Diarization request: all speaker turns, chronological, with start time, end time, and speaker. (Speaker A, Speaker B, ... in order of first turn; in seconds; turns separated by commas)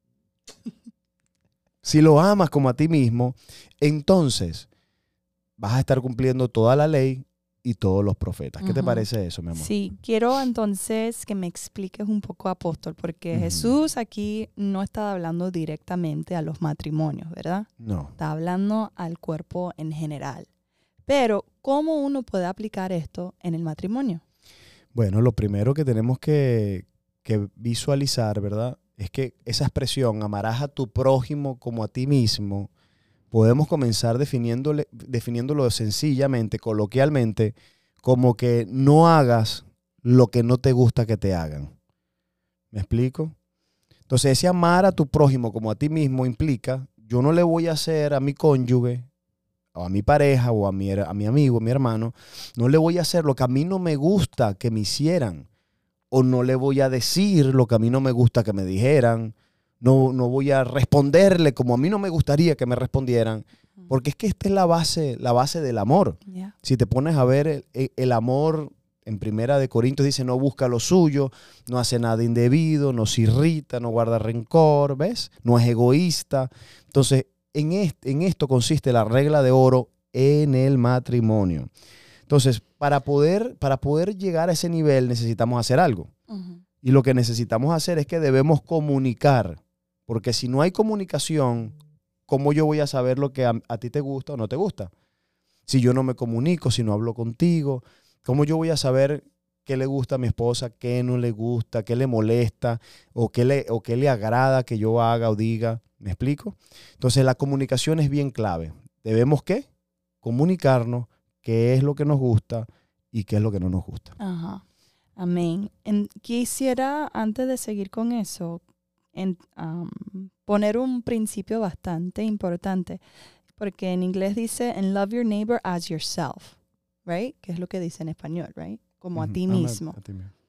Speaker A: 1.8-4.7, Speaker A: 5.6-9.7, Speaker B: 8.6-20.5, Speaker A: 13.3-13.7, Speaker A: 17.8-18.1, Speaker B: 21.1-24.2, Speaker A: 24.9-32.7, Speaker A: 33.3-41.7, Speaker A: 42.7-43.3, Speaker A: 44.1-49.1, Speaker A: 49.7-55.5, Speaker A: 56.1-81.7, Speaker B: 66.3-66.5, Speaker A: 82.3-86.1, Speaker B: 86.3-86.6, Speaker A: 86.8-91.7, Speaker A: 92.3-94.9, Speaker A: 95.7-109.7, Speaker A: 110.2-114.2, Speaker B: 114.2-114.6, Speaker B: 115.2-118.6, Speaker B: 119.1-123.0, Speaker B: 123.6-130.0, Speaker A: 129.2-130.3